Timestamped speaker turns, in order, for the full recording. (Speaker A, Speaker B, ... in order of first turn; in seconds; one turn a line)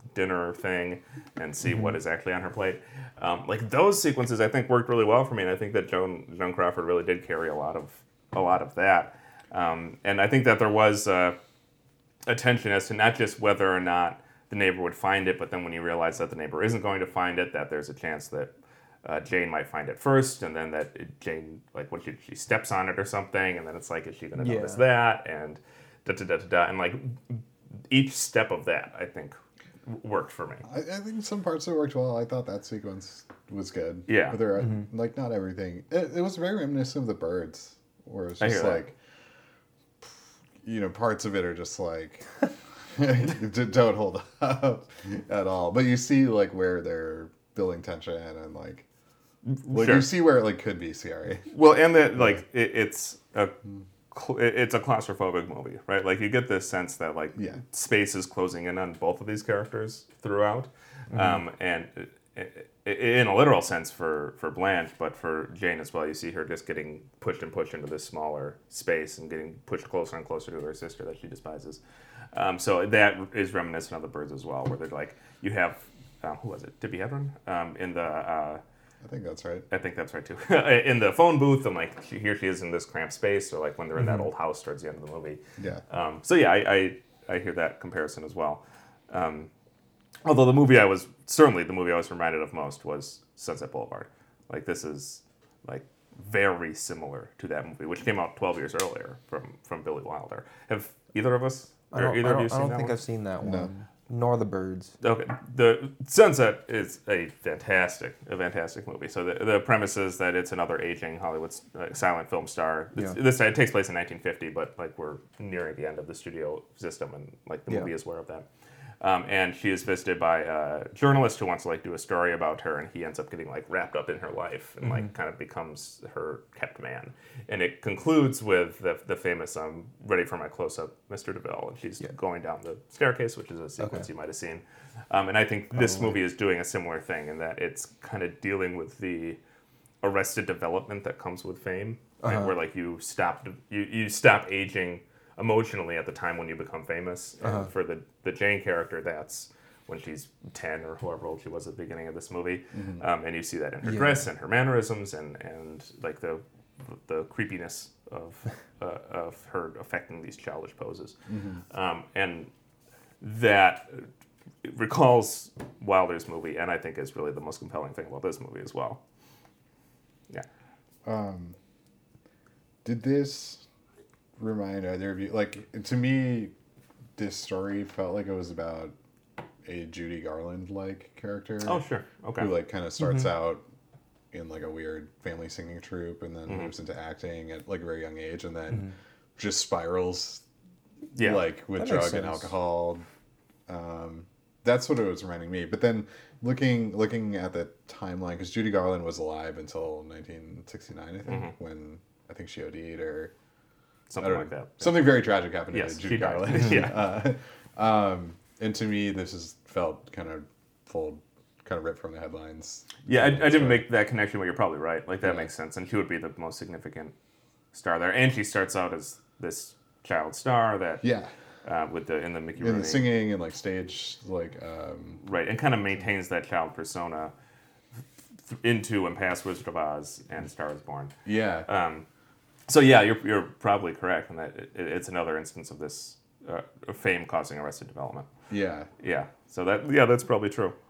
Speaker A: 0.1-11.4
Speaker A: 12.3-18.5
Speaker A: 19.0-30.6
Speaker B: 24.4-24.8
Speaker C: 30.7-39.0
Speaker A: 34.1-34.4
Speaker B: 34.6-34.9
Speaker A: 38.4-38.8
Speaker C: 40.6-42.2
Speaker C: 42.9-48.9
Speaker A: 49.5-50.1
Speaker C: 49.7-51.5
Speaker A: 51.5-53.5
Speaker C: 52.2-52.4
Speaker A: 54.1-71.8
Speaker B: 61.1-61.4
Speaker A: 72.3-78.6
Speaker C: 79.0-79.7
Speaker A: 79.7-89.5
Speaker B: 84.0-84.2
Speaker A: 90.2-103.0
Speaker B: 101.9-104.9
Speaker C: 103.4-103.7
Speaker A: 105.0-118.5
Speaker A: 119.0-139.4
Speaker B: 133.8-134.1
Speaker B: 135.8-136.1
Speaker A: 140.0-161.2
Speaker B: 142.2-142.5
Speaker B: 147.4-147.7
Speaker C: 152.7-153.0
Speaker B: 153.8-154.2
Speaker C: 161.3-161.6
Speaker A: 161.7-162.5
Speaker A: 163.2-164.1
Speaker A: 164.6-169.0
Speaker C: 171.1-171.6
Speaker C: 172.8-173.6
Speaker C: 174.4-176.5
Speaker C: 177.2-178.9
Speaker C: 179.6-181.8
Speaker A: 181.6-182.5
Speaker C: 182.4-183.6
Speaker C: 184.3-190.4
Speaker A: 191.2-191.4
Speaker C: 191.2-193.0
Speaker B: 191.8-192.5
Speaker C: 193.7-203.3
Speaker A: 204.1-205.2
Speaker C: 204.2-213.8
Speaker A: 205.7-207.0
Speaker A: 213.1-217.1
Speaker C: 215.2-215.5
Speaker A: 217.7-221.0
Speaker C: 221.0-221.3
Speaker A: 221.7-223.0
Speaker C: 222.6-225.2
Speaker A: 225.2-227.3
Speaker A: 228.5-231.1
Speaker C: 231.3-231.7
Speaker A: 231.7-232.1
Speaker A: 232.7-238.3
Speaker C: 238.5-238.9
Speaker A: 239.0-240.8